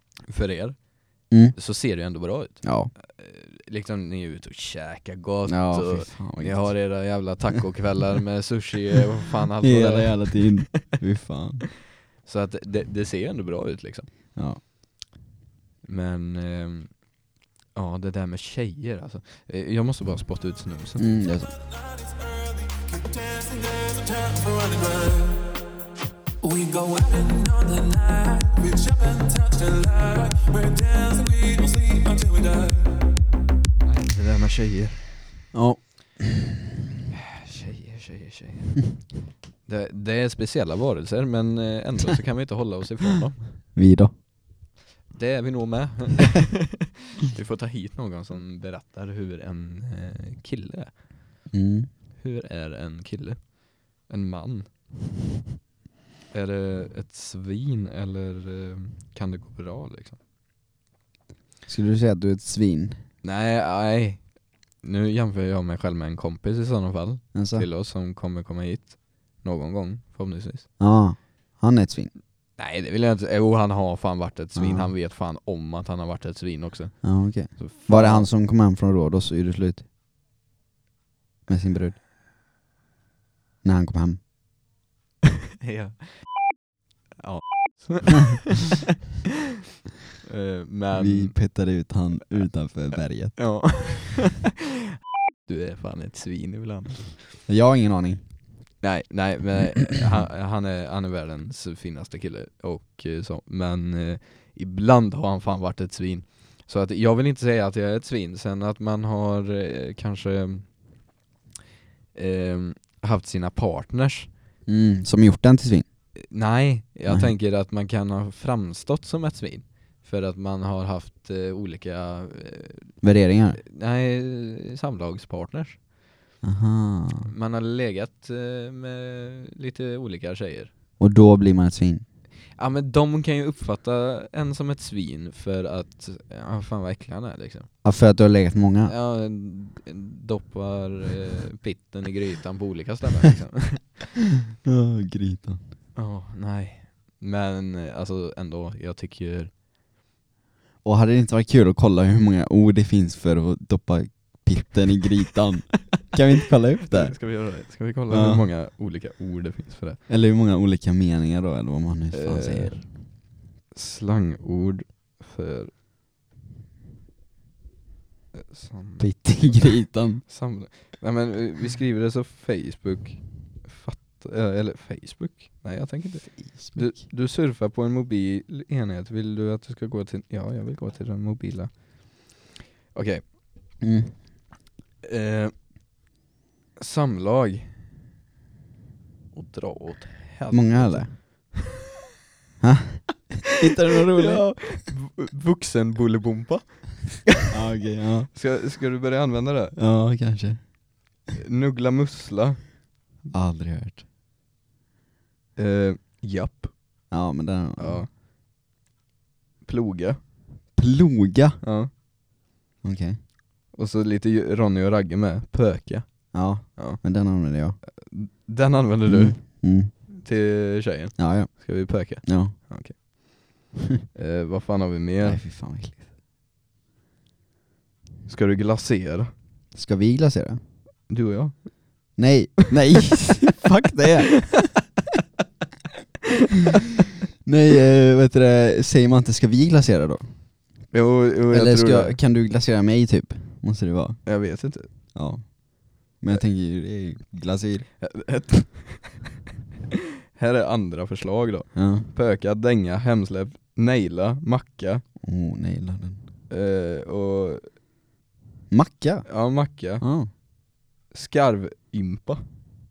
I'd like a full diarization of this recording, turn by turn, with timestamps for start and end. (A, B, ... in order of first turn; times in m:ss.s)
0:00.3-0:10.6 A
0:01.3-0:01.6 B
0:02.6-0:02.9 B
0:05.5-0:06.9 B
0:09.6-0:11.7 B
0:12.2-0:14.1 A
0:15.8-0:17.1 A
0:17.7-0:21.2 A
0:21.0-0:21.5 B
0:21.7-0:25.6 C
0:26.4-0:33.1 C
0:33.8-0:35.2 A
0:35.5-0:36.5 B
0:37.1-0:38.8 A
0:39.6-0:43.6 A
0:43.7-0:44.1 B
0:45.1-0:51.2 A
0:51.5-0:51.9 B
0:52.2-0:54.7 A
0:56.3-1:00.2 A
1:01.7-1:03.0 B
1:03.2-1:10.7 A
1:07.3-1:07.7 B
1:10.8-1:12.1 B
1:12.6-1:18.3 A
1:14.6-1:14.9 B
1:17.0-1:19.9 B
1:21.5-1:22.0 B
1:23.6-1:24.2 B
1:25.6-1:26.3 A
1:27.2-1:28.4 A
1:30.2-1:31.4 A
1:31.0-1:33.9 B
1:33.4-1:34.5 A
1:35.5-1:37.2 A
1:37.5-1:38.3 B
1:38.8-1:50.8 A
1:52.1-1:54.3 A
1:54.7-1:55.9 B
1:56.2-2:03.0 A
1:57.1-1:57.3 B
2:03.0-2:03.6 B
2:03.6-2:05.8 A
2:06.4-2:07.3 B
2:07.3-2:10.7 A
2:11.0-2:12.0 B
2:12.6-2:17.7 A
2:17.8-2:18.9 B
2:18.9-2:24.1 A
2:24.6-2:25.6 B
2:26.0-2:29.5 A
2:30.8-2:37.3 B
2:36.9-2:40.0 A
2:38.1-2:38.5 B
2:40.1-2:42.9 B
2:42.1-2:43.0 A
2:43.7-2:45.7 A
2:48.3-2:49.7 A
2:49.0-2:50.2 B
2:50.2-3:02.4 A
2:56.5-2:57.0 B
3:02.9-3:03.3 A
3:03.8-3:04.2 B
3:05.0-3:05.5 A
3:06.8-3:07.7 A
3:09.3-3:11.6 A
3:10.5-3:11.2 B
3:12.6-3:14.8 B
3:14.2-3:17.4 A
3:17.5-3:18.3 B
3:18.3-3:19.8 A
3:19.8-3:20.6 B
3:21.4-3:22.7 A
3:23.3-3:24.0 B
3:25.6-3:27.0 A
3:27.1-3:28.0 B
3:27.8-3:28.1 A
3:29.6-3:30.2 A
3:30.8-3:31.6 B
3:31.6-3:31.9 A
3:32.8-3:33.2 B
3:33.7-3:37.0 A
3:36.3-3:37.8 B
3:38.0-3:45.4 A
3:39.1-3:39.9 B
3:41.2-3:42.6 B
3:45.2-3:46.1 B
3:48.3-3:49.3 A
3:49.8-3:50.6 B
3:51.1-3:51.9 A
3:52.2-3:54.7 B
3:57.4-4:00.3 B
4:00.9-4:02.2 A
4:01.5-4:04.3 B
4:04.3-4:04.9 A
4:05.1-4:07.9 B
4:08.0-4:09.2 A
4:10.3-4:15.0 A
4:11.8-4:12.1 B
4:15.2-4:16.2 B
4:16.5-4:17.7 A
4:18.7-4:20.3 B
4:19.3-4:20.0 A
4:21.1-4:22.6 A